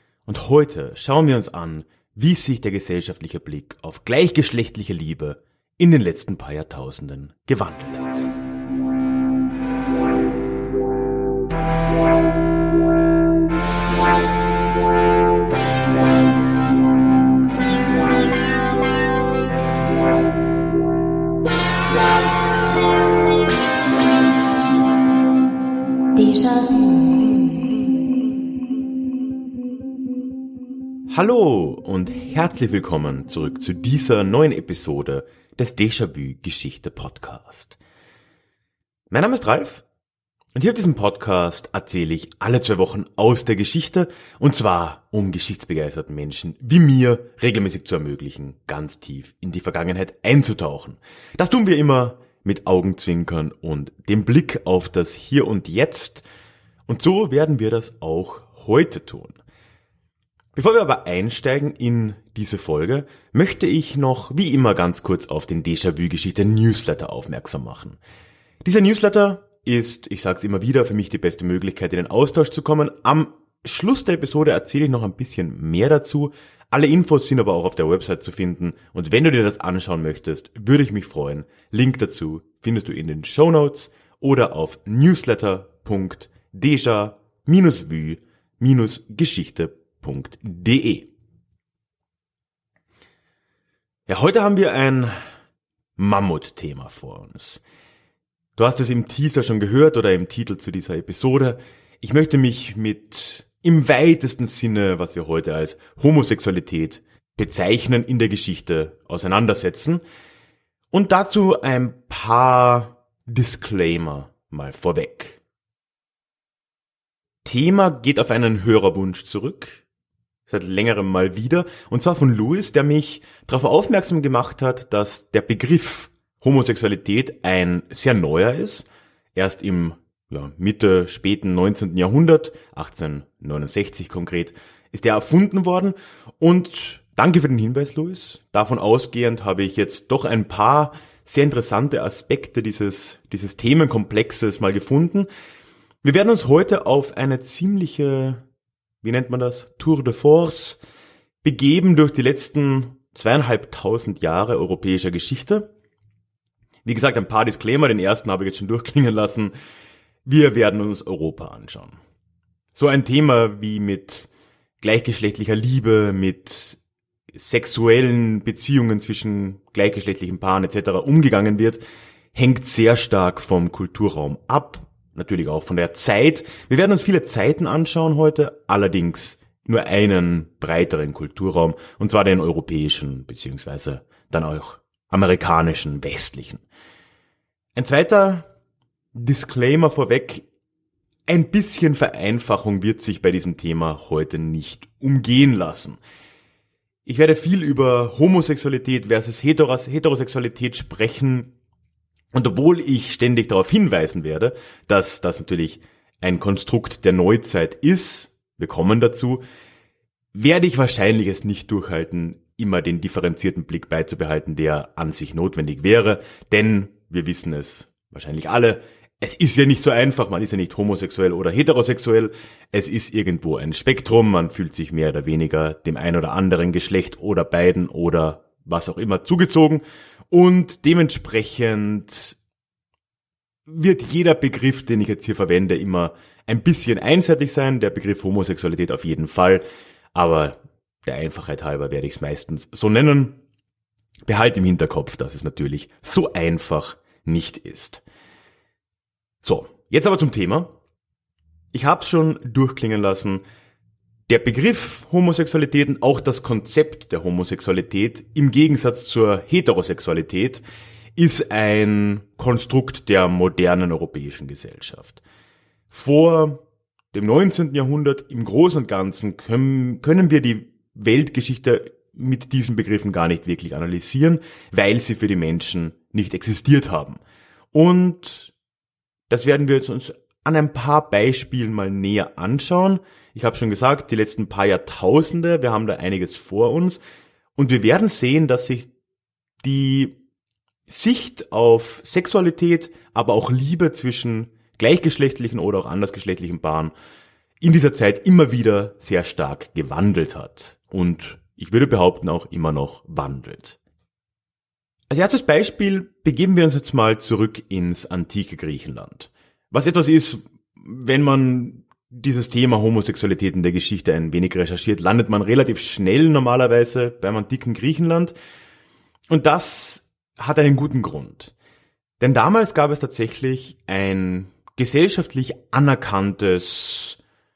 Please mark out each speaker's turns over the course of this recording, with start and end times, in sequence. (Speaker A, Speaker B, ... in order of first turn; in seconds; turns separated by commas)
Speaker A: 0.3-8.3, Speaker A: 31.1-37.8, Speaker A: 39.1-39.8, Speaker A: 40.5-56.2, Speaker A: 56.9-59.4, Speaker A: 60.5-68.0, Speaker A: 68.6-91.1, Speaker A: 94.1-95.2, Speaker A: 96.0-97.6, Speaker A: 98.6-110.0, Speaker A: 110.9-115.4, Speaker A: 117.4-119.8, Speaker A: 120.5-145.3, Speaker A: 146.0-148.4, Speaker A: 149.0-150.8, Speaker A: 151.4-155.7, Speaker A: 156.8-159.5, Speaker A: 160.2-162.0, Speaker A: 162.7-164.3, Speaker A: 164.8-166.8, Speaker A: 167.3-171.8, Speaker A: 172.3-186.6, Speaker A: 187.8-188.5, Speaker A: 189.1-190.4, Speaker A: 191.3-196.0, Speaker A: 197.1-201.5, Speaker A: 202.3-209.4, Speaker A: 210.3-232.3, Speaker A: 233.7-243.4, Speaker A: 244.2-248.0, Speaker A: 249.4-250.7, Speaker A: 251.7-253.4, Speaker A: 254.3-260.6, Speaker A: 261.1-265.2, Speaker A: 265.9-266.6, Speaker A: 267.1-277.2, Speaker A: 277.7-278.5, Speaker A: 279.3-287.0, Speaker A: 287.6-288.9, Speaker A: 289.6-290.2, Speaker A: 290.9-296.9, Speaker A: 297.6-303.8, Speaker A: 305.1-318.3, Speaker A: 319.3-321.5, Speaker A: 322.2-327.2